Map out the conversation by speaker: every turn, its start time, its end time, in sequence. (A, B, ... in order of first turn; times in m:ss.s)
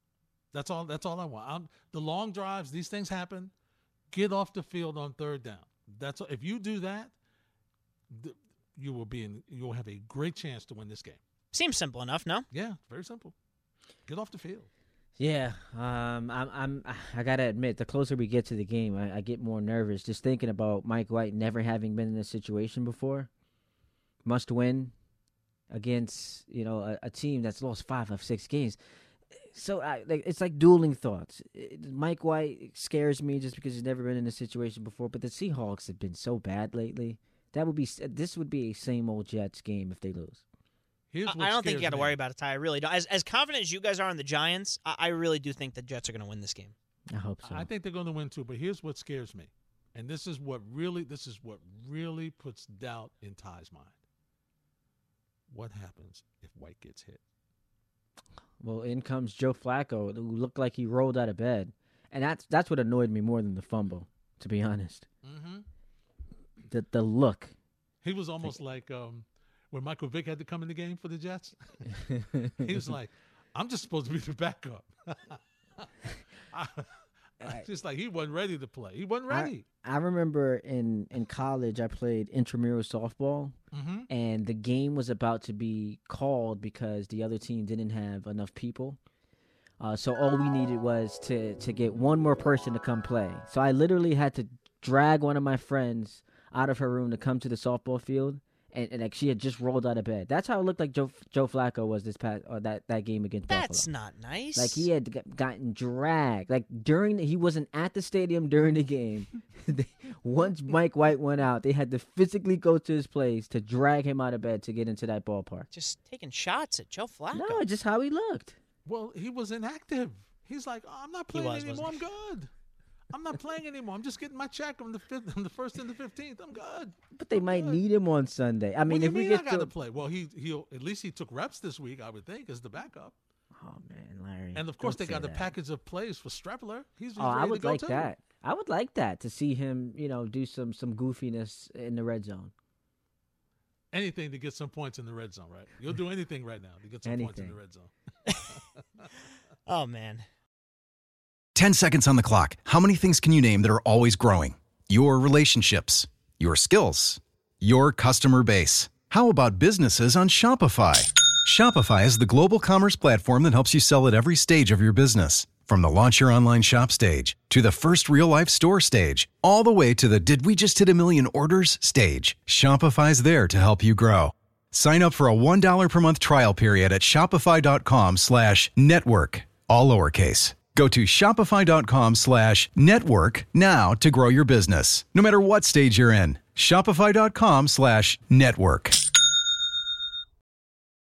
0:00.5-0:03.5 A
0:04.1-0:07.1 A
0:08.1-0:11.2 A
0:11.5-0:12.4 B
0:12.5-0:13.3 A
0:14.1-0:14.7 A
0:15.2-0:23.3 C
0:24.2-0:24.9 C
0:25.7-0:28.8 C
0:29.5-0:40.4 C
0:41.1-0:42.2 A
0:41.2-0:46.7 B
0:47.1-0:47.7 C
0:47.4-0:54.0 A
0:55.5-0:57.2 A
0:58.6-1:05.0 C
1:05.2-1:05.6 A
1:06.7-1:07.5 C
1:08.0-1:12.0 A
1:12.0-1:12.8 C
1:12.6-1:15.9 A
1:16.5-1:19.6 A
1:19.3-1:23.5 C
1:23.7-1:24.1 A
1:24.1-1:29.0 C
1:29.8-1:43.9 C
1:43.5-1:44.9 B
1:44.6-1:55.7 C
1:55.7-1:57.6 B
1:57.3-1:58.6 C
1:58.8-2:02.5 A
2:01.3-2:02.0 B
2:03.1-2:07.8 A
2:07.1-2:09.7 C
2:08.9-2:13.1 A
2:13.5-2:15.5 C
2:14.5-2:18.1 A
2:17.2-2:22.5 C
2:23.9-2:27.9 A
2:27.0-2:27.6 C
2:28.5-2:29.0 A
2:29.7-2:30.2 B
2:31.5-3:09.0 D